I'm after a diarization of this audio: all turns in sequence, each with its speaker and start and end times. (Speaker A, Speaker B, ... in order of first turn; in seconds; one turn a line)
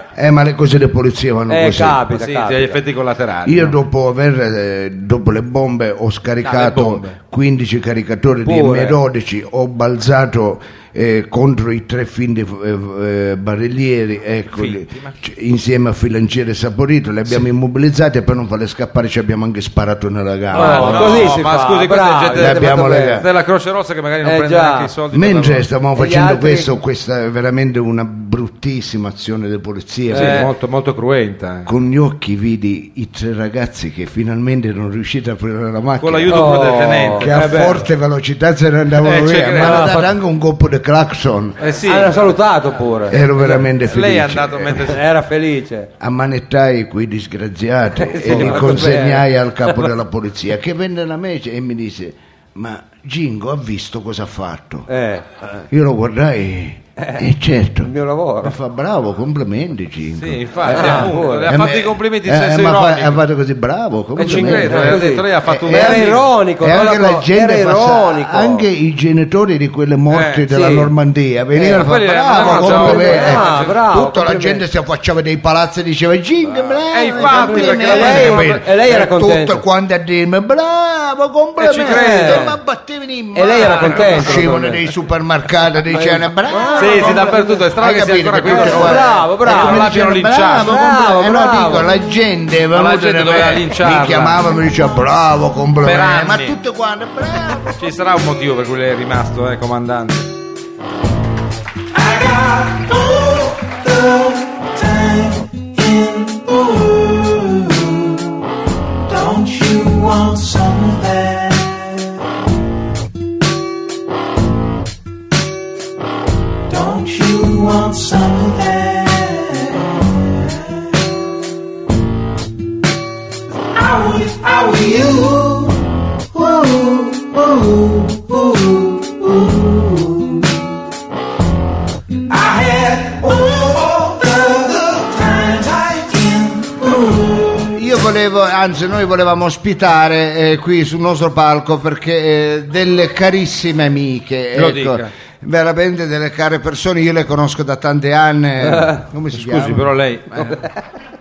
Speaker A: 0.1-2.0
Speaker B: 1.5-2.8
Speaker C: 2.1-3.8
Speaker A: 3.5-21.4
Speaker C: 6.4-7.2
Speaker B: 8.4-9.0
Speaker C: 14.5-15.2
Speaker B: 20.5-23.3
Speaker C: 20.5-25.7
Speaker A: 22.4-23.3
Speaker B: 24.2-24.9
Speaker A: 25.1-30.5
Speaker B: 25.9-26.7
Speaker B: 30.1-30.5
Speaker C: 30.1-31.7
Speaker A: 31.7-41.6
Speaker C: 36.0-37.7
Speaker B: 36.3-37.9
Speaker C: 39.0-40.0
Speaker B: 39.6-40.1
Speaker C: 41.6-42.2
Speaker B: 41.8-43.6
Speaker A: 43.1-44.9
Speaker C: 43.9-45.0
Speaker B: 44.8-45.9
Speaker A: 46.0-54.9
Speaker B: 48.0-49.9
Speaker C: 48.2-49.0
Speaker B: 54.9-55.6
Speaker A: 55.7-57.9
Speaker B: 57.8-58.5
Speaker A: 58.4-97.8
Speaker C: 60.2-63.2
Speaker B: 60.7-61.5
Speaker C: 64.2-66.2
Speaker B: 64.2-68.7
Speaker C: 70.1-70.5
Speaker B: 70.5-70.9
Speaker B: 71.5-74.6
Speaker C: 71.8-73.8
Speaker C: 76.9-78.7
Speaker B: 77.2-79.6
Speaker C: 81.6-82.5
Speaker B: 81.9-82.5
Speaker B: 83.3-84.8
Speaker C: 83.6-84.4
Speaker B: 85.9-87.7
Speaker C: 86.8-90.7
Speaker B: 88.4-90.0
Speaker B: 90.6-91.9
Speaker C: 92.7-94.5
Speaker C: 95.8-96.6
Speaker C: 97.8-100.3
Speaker D: 101.9-108.3
Speaker D: 109.1-112.1
Speaker D: 116.7-120.6
Speaker D: 123.7-125.8
Speaker D: 126.3-130.5
Speaker D: 132.3-137.8
Speaker A: 137.8-149.8
Speaker C: 144.5-145.1
Speaker B: 148.6-149.0
Speaker C: 149.3-150.7